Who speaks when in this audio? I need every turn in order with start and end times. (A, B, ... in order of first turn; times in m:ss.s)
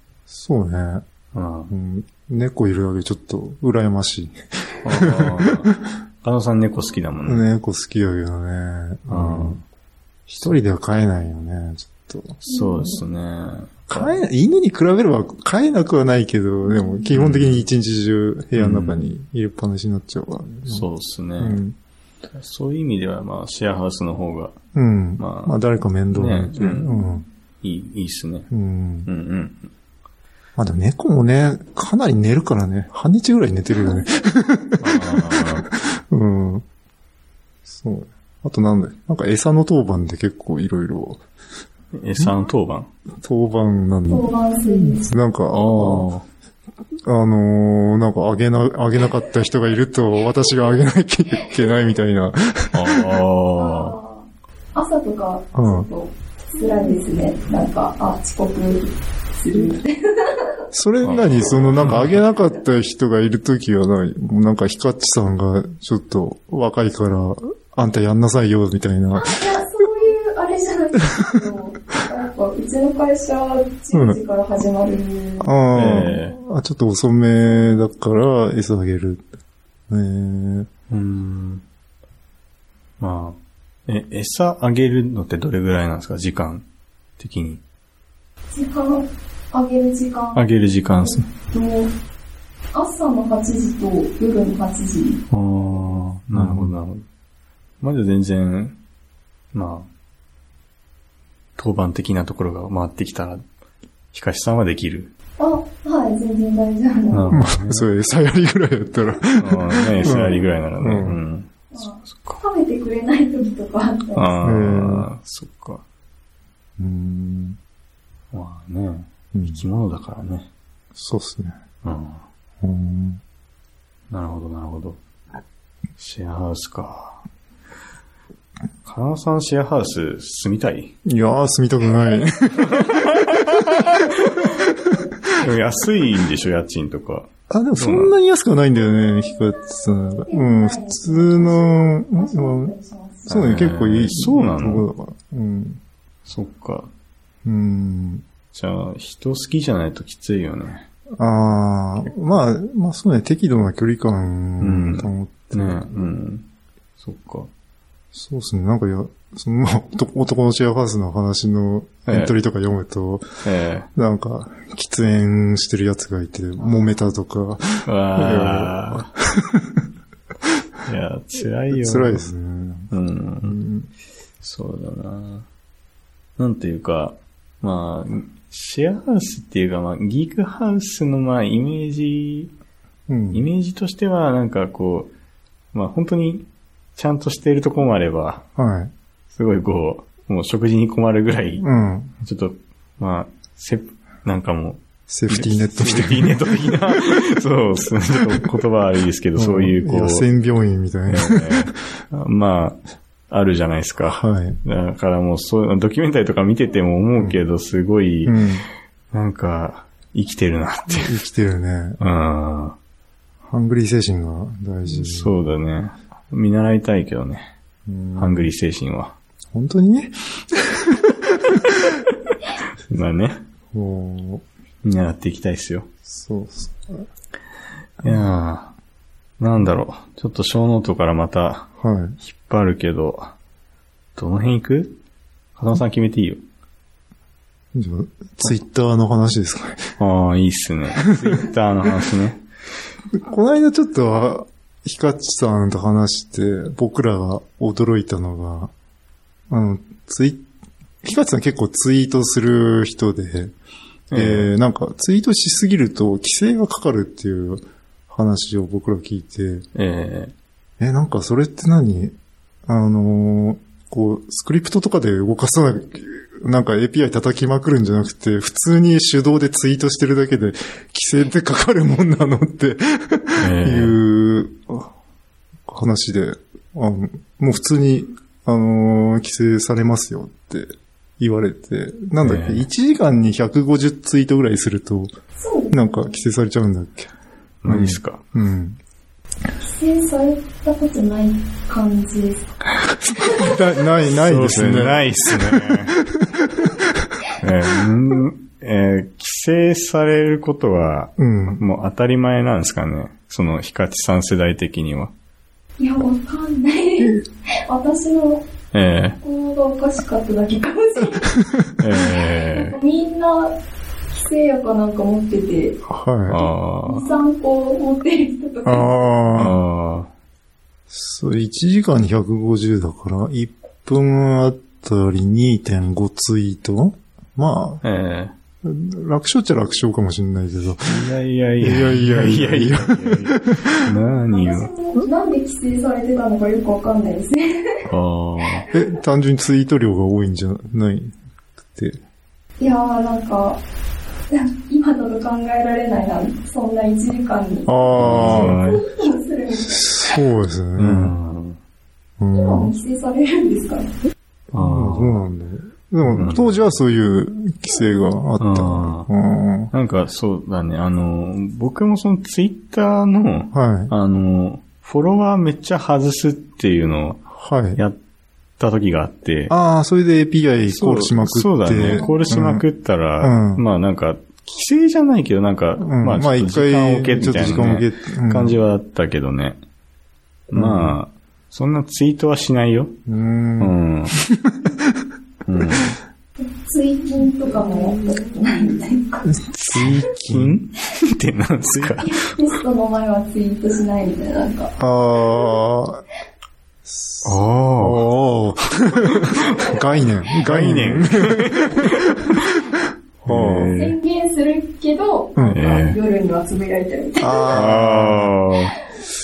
0:00.3-0:01.0 A
0:01.3-0:01.7 B
0:01.7-0:05.8 A
0:04.8-0:07.4 B
0:07.2-0:09.6 A
0:09.1-0:09.6 B
0:10.3-0:12.4 A
0:12.4-0:14.2 B
0:12.5-0:13.0 C
0:13.9-0:20.8 A
0:16.7-0:17.0 C
0:17.1-0:17.6 B
0:18.6-0:19.1 B
0:20.7-0:21.6 B
0:21.4-0:21.8 A
0:22.4-0:24.6 B
0:24.7-0:27.2 A
0:25.2-0:25.6 B
0:26.1-0:26.9 B
0:27.6-0:28.5 B
0:28.5-0:29.1 A
0:29.0-0:29.7 B
0:30.6-0:36.6 A
0:34.8-0:35.7 B
0:37.6-0:41.2 A
0:41.9-0:42.9 B
0:43.2-0:46.1 A
0:44.1-0:45.1 C
0:45.5-0:46.2 B
0:47.0-0:53.0 A
0:52.7-0:53.9 B
0:53.6-1:00.6 C
0:55.5-0:55.9 A
1:00.7-1:09.4 A
1:01.0-1:02.2 B
1:09.2-1:15.5 C
1:13.9-1:14.2 A
1:15.4-1:19.2 A
1:15.7-1:16.4 B
1:19.9-1:20.7 A
1:20.9-1:21.6 B
1:23.0-1:26.6 B
1:27.2-1:27.6 B
1:28.5-1:30.4 C
1:30.3-1:31.2 B
1:31.0-1:31.9 C
1:32.7-1:35.2 C
1:35.3-1:37.0 B
1:36.3-1:36.8 A
1:37.8-1:38.8 B
1:39.5-1:39.9 B
1:41.6-1:43.4 B
1:44.1-1:45.1 B
1:45.4-1:47.4 C
1:47.1-1:47.8 B
1:47.3-1:51.2 A
1:49.4-1:52.4 B
1:51.7-1:54.4 C
1:54.1-1:55.8 B
1:54.4-1:55.1 A
1:56.8-1:57.6 A
1:58.3-2:00.5 B
1:59.3-1:59.6 A
2:00.9-2:01.5 A
2:01.8-2:02.2 B
2:02.6-2:03.2 A
2:04.1-2:05.0 B
2:06.0-2:07.2 B
2:08.8-2:10.9 B
2:11.0-2:13.8 A
2:12.7-2:14.5 B
2:14.4-2:15.0 A
2:15.3-2:18.1 B
2:17.5-2:22.7 A
2:19.0-2:23.5 C
2:23.3-2:24.9 B
2:23.3-2:25.8 A
2:26.2-2:26.9 B
2:27.4-2:28.2 A
2:28.5-2:30.9 B
2:31.2-2:35.9 A
2:34.6-2:36.5 B
2:37.0-2:37.5 B
2:38.1-2:43.2 A
2:42.1-2:42.3 B
2:43.4-2:43.9 B
2:43.9-2:49.8 A
2:47.8-2:49.1 B
2:50.8-2:52.2 B
2:51.7-2:52.9 A
2:52.9-2:53.6 B
2:53.4-2:53.9 A
2:54.4-2:55.5 B
2:56.4-3:02.5 B
3:03.1-3:03.4 A
3:03.3-3:05.1 B
3:05.7-3:08.4 B
3:08.6-3:08.9 A
3:09.3-3:11.7 B
3:11.6-3:12.1 A
3:12.2-3:20.3 B
3:15.1-3:17.0 A
3:19.4-3:21.7 A
3:21.1-3:28.4 B
3:24.2-3:24.6 A
3:28.2-3:28.6 A
3:29.1-3:31.2 B
3:31.0-3:32.0 A
3:32.0-3:32.8 B
3:33.4-3:35.3 A
3:34.8-3:37.5 B
3:37.9-3:38.5 A
3:38.2-3:39.2 B
3:39.5-3:42.0 A
3:42.6-3:43.4 B
3:43.7-3:44.4 A
3:44.8-3:45.9 B
3:46.0-3:47.1 A
3:48.0-3:48.7 B
3:49.4-3:53.3 B
3:51.8-3:52.2 A
3:54.2-3:55.0 B
3:55.6-3:56.4 B
3:57.7-3:59.9 A
4:00.0-4:02.4 B
4:03.2-4:08.7 A
4:09.5-4:10.4 A
4:11.0-4:13.5 A
4:14.1-4:14.5 B
4:14.1-4:19.6 A
4:19.7-4:20.3 B
4:20.8-4:22.1 A
4:22.6-4:34.9 A
4:33.4-4:34.0 B
4:35.7-4:45.1 A
4:42.2-4:42.7 B
4:45.4-4:46.0 C
4:45.7-4:47.1 A
4:47.6-4:48.2 B
4:47.7-4:48.8 A
4:49.6-4:52.6 C
4:53.1-4:57.1 A
4:53.1-4:53.6 C
4:54.0-4:55.9 B
4:57.4-5:05.1 B
5:01.2-5:01.6 A
5:05.8-5:08.4 C
5:08.7-5:09.2 B
5:09.2-5:13.6 C
5:11.8-5:12.8 B
5:14.1-5:15.8 C
5:15.8-5:16.4 A
5:16.3-5:17.1 B
5:16.8-5:18.9 C
5:18.6-5:19.6 A
5:19.3-5:20.1 B
5:20.9-5:27.8 A
5:27.8-5:28.3 B
5:28.6-5:31.0 A
5:30.8-5:34.7 B
5:31.6-5:33.8 A
5:33.9-5:37.9 C
5:37.9-5:38.6 B
5:38.7-5:42.0 A
5:42.6-5:43.6 C
5:44.3-5:50.2 C
5:47.6-5:48.6 A
5:48.0-5:48.8 B
5:49.7-5:51.1 A
5:50.8-5:51.6 B
5:52.2-5:52.7 A
5:52.3-5:53.9 C
5:54.5-5:59.7 A
5:54.5-5:55.2 B
5:56.0-5:56.6 B
5:58.4-5:59.1 B
5:59.7-6:08.0 B
6:03.5-6:03.9 A
6:07.3-6:07.8 A
6:08.6-6:09.5 B
6:09.5-6:12.6 A
6:10.6-6:19.6 B
6:11.9-6:12.4 C
6:13.2-6:13.6 A
6:15.8-6:18.6 A
6:20.5-6:23.0 B
6:20.5-6:21.0 A
6:23.1-6:25.0 A
6:23.6-6:24.2 B
6:25.4-6:26.0 B
6:26.6-6:29.4 C
6:27.5-6:28.2 A
6:29.3-6:30.6 A
6:29.5-6:32.3 B
6:32.0-6:34.7 C
6:34.8-6:36.0 A
6:36.8-6:41.9 A
6:37.2-6:38.1 B
6:39.0-6:39.8 B
6:40.4-6:42.4 B
6:43.2-6:43.7 A
6:43.2-6:44.0 B
6:43.8-6:47.6 C
6:45.5-6:46.0 B
6:47.2-6:48.3 A
6:47.5-6:48.8 B